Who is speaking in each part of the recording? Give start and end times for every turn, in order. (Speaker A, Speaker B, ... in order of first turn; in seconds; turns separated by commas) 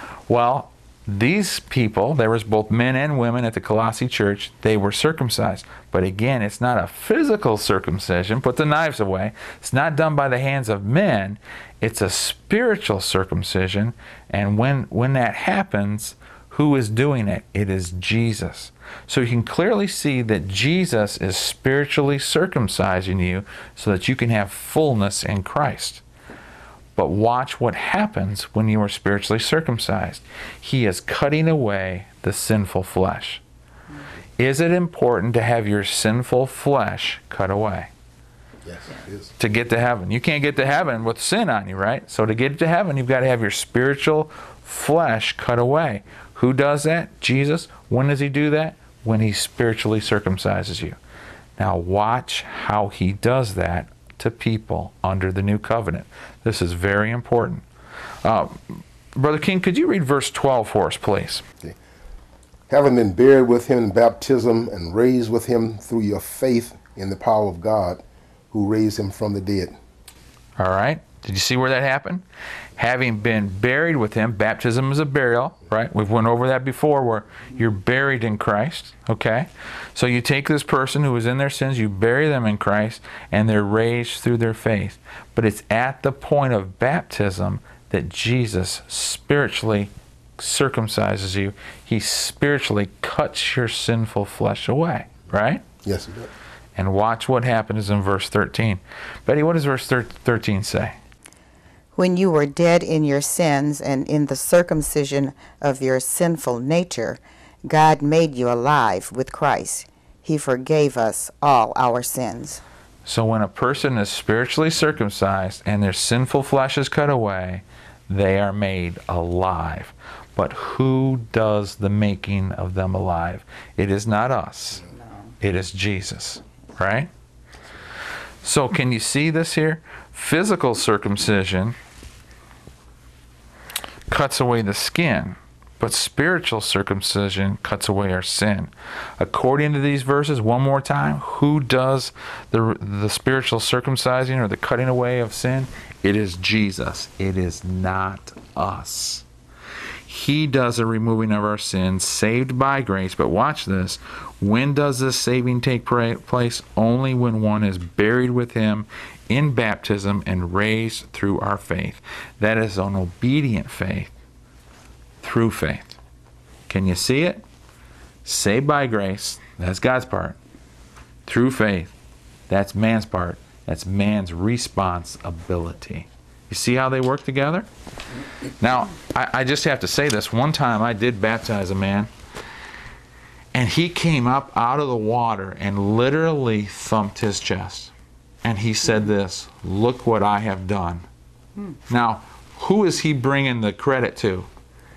Speaker A: 0.3-26.0, Speaker A: 27.0-33.4, Speaker A: 34.4-37.9, Speaker B: 38.6-39.3, Speaker A: 39.4-51.0, Speaker A: 51.6-57.6, Speaker A: 58.2-61.4, Speaker B: 62.7-69.7, Speaker A: 70.6-72.2, Speaker A: 72.8-95.6, Speaker B: 95.8-96.3, Speaker A: 96.8-101.0, Speaker C: 102.0-112.6, Speaker A: 113.1-124.9, Speaker A: 125.4-127.1, Speaker A: 128.4-131.8, Speaker A: 134.1-149.2, Speaker A: 150.1-164.1, Speaker A: 165.2-166.0, Speaker A: 166.7-167.4, Speaker A: 168.2-170.4, Speaker A: 171.3-171.9, Speaker A: 172.5-177.7, Speaker A: 178.6-182.1, Speaker A: 183.5-187.9, Speaker A: 188.4-191.0, Speaker A: 191.9-194.5